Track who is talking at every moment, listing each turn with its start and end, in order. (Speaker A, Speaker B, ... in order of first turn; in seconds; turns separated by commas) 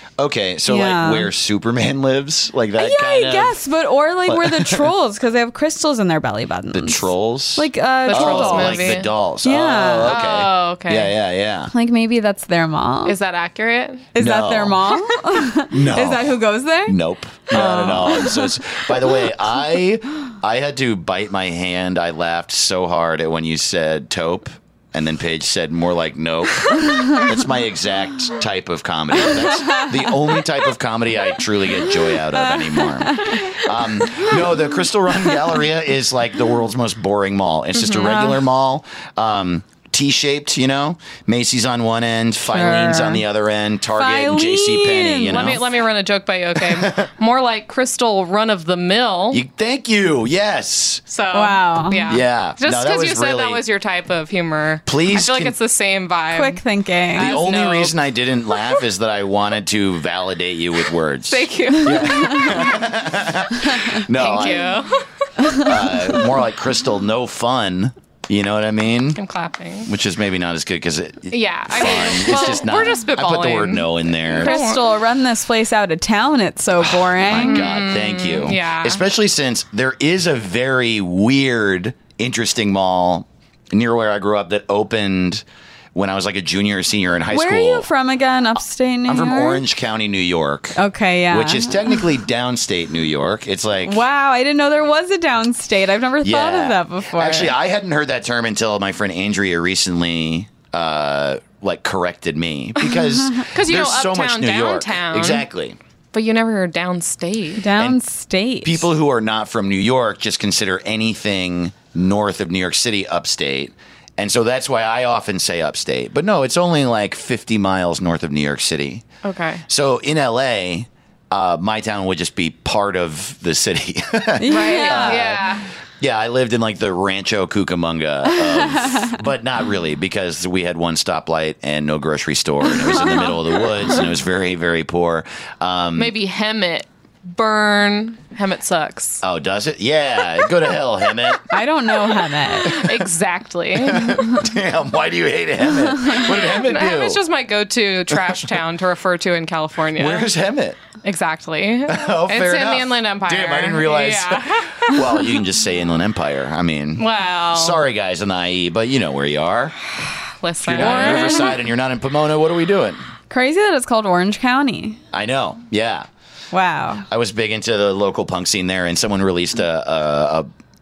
Speaker A: 0.2-3.6, Speaker B: 0.7-1.3, Speaker B: 2.8-10.2, Speaker A: 4.3-4.9, Speaker A: 6.7-11.7, Speaker C: 8.1-9.1, Speaker C: 10.0-11.1, Speaker B: 11.7-13.2, Speaker C: 13.1-14.1, Speaker B: 14.1-17.0, Speaker A: 14.2-14.9, Speaker A: 15.7-45.7, Speaker B: 17.5-18.4, Speaker C: 17.5-18.4, Speaker B: 29.6-29.9, Speaker B: 32.8-33.6, Speaker C: 37.8-38.3, Speaker B: 38.0-38.3, Speaker B: 42.5-43.2, Speaker B: 43.9-45.6, Speaker C: 45.3-49.4, Speaker A: 46.6-47.1, Speaker A: 49.3-51.0, Speaker C: 51.1-56.6, Speaker B: 51.3-52.1, Speaker A: 52.1-53.6, Speaker A: 54.9-55.6, Speaker B: 56.3-57.3, Speaker C: 57.1-58.0, Speaker A: 57.2-64.9, Speaker C: 61.3-62.8, Speaker C: 63.9-65.7, Speaker A: 65.6-69.2, Speaker C: 69.2-69.9, Speaker A: 69.9-74.6, Speaker C: 71.3-74.9, Speaker B: 74.3-77.7, Speaker A: 76.8-85.4, Speaker C: 77.3-79.0, Speaker A: 86.0-87.9, Speaker B: 87.3-89.6, Speaker A: 89.1-94.0, Speaker B: 90.8-92.0, Speaker B: 93.8-97.5, Speaker A: 96.2-105.8, Speaker C: 103.5-105.5, Speaker C: 106.1-107.7, Speaker B: 107.6-108.9, Speaker A: 108.6-119.0, Speaker C: 119.2-119.6, Speaker A: 119.7-136.1, Speaker B: 124.4-125.3, Speaker C: 124.5-125.7, Speaker B: 128.4-129.1, Speaker B: 132.9-133.3, Speaker C: 136.0-139.2, Speaker A: 139.2-141.4, Speaker B: 141.5-142.8, Speaker C: 142.7-144.2, Speaker A: 142.7-143.0, Speaker A: 143.8-147.2, Speaker C: 146.1-150.3, Speaker A: 148.1-148.5, Speaker A: 150.0-150.8, Speaker C: 151.0-155.1, Speaker A: 151.9-159.8, Speaker C: 157.0-157.8, Speaker C: 160.4-161.6, Speaker A: 160.6-163.0, Speaker B: 160.8-161.4, Speaker B: 163.3-165.0, Speaker A: 165.1-166.1, Speaker B: 166.5-167.1, Speaker A: 167.1-170.5